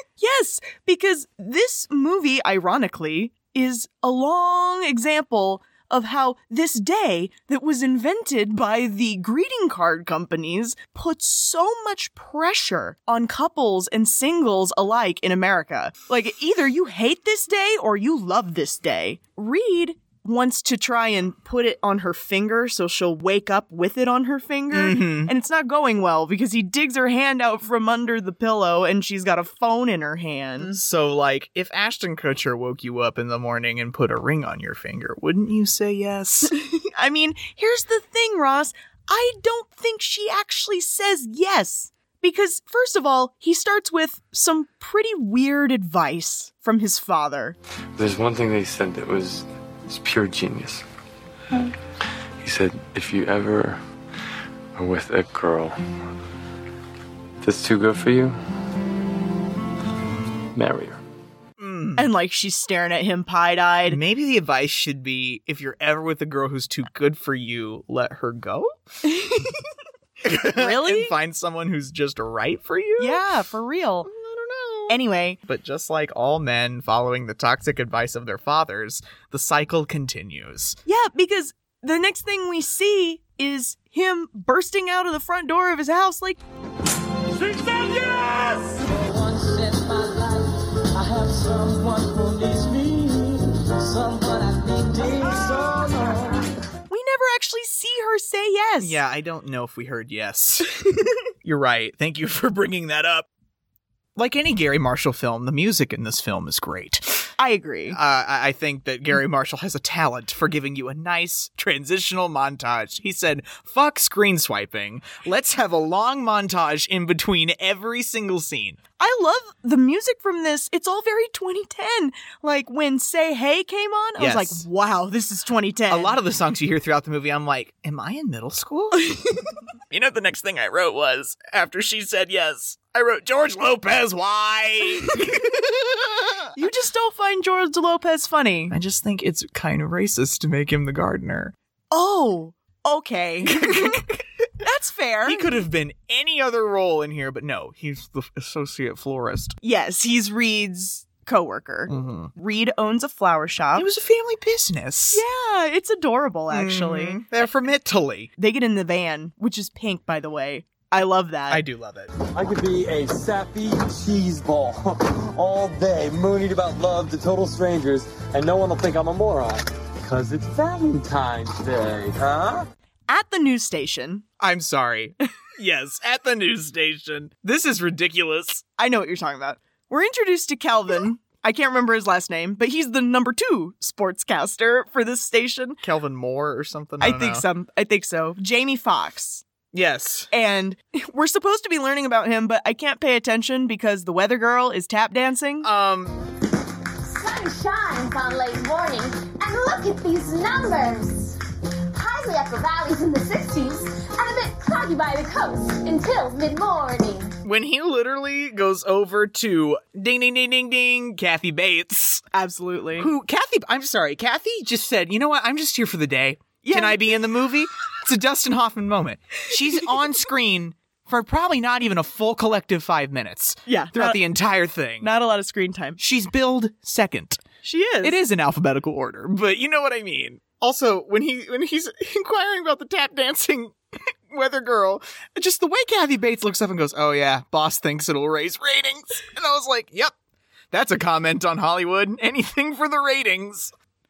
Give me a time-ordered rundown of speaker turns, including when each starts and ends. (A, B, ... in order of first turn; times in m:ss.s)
0:00.2-0:30.7 A
0:24.7-0:25.3 B
0:30.6-0:36.5 B
0:37.0-0:47.6 A
0:48.0-0:50.8 C
0:52.4-0:53.8 C
0:54.7-0:55.8 C
0:57.4-0:58.4 C
1:00.5-1:01.0 C
1:01.6-1:02.1 B
1:02.0-1:04.0 A
1:03.9-1:08.7 B
1:10.2-1:13.2 B
1:10.5-1:11.1 A
1:13.0-1:14.1 A
1:14.0-1:20.8 B
1:14.9-1:15.4 A
1:20.9-1:26.4 A
1:36.9-1:39.0 A
1:38.8-1:40.7 B
1:41.4-1:43.2 B
1:44.2-1:47.2 B
1:47.4-1:48.0 A
1:47.9-1:58.8 B
1:59.0-2:06.2 A
2:04.2-2:04.6 B
2:05.9-2:09.1 B
2:09.9-2:16.5 B
2:16.5-2:18.7 A
2:18.7-2:21.5 B
2:21.9-2:25.6 A
2:23.5-2:24.0 B
2:25.2-2:29.6 B
2:29.6-2:33.8 A
2:31.9-2:32.3 B
2:33.7-2:35.2 B
2:35.1-2:37.4 A
2:36.5-2:38.3 B
2:38.4-2:41.6 A
2:41.5-2:42.1 B
2:42.3-2:52.6 D
2:53.1-2:54.2 A
2:54.4-2:58.6 B
2:58.8-3:05.8 A
3:05.8-3:07.4 B
3:07.0-3:09.4 A
3:09.7-3:10.3 B
3:10.3-3:15.7 A
3:15.6-3:16.1 B
3:17.0-3:21.4 E
3:21.9-3:27.3 E
3:27.4-3:32.2 B
3:32.3-3:33.1 A
3:33.0-3:45.1 B
3:36.6-3:37.1 A
3:43.7-3:44.2 A
3:45.0-3:46.0 A
3:46.0-3:47.4 B
3:47.6-3:48.2 A
3:48.0-3:53.8 B
3:54.3-4:00.1 B
4:00.7-4:03.7 B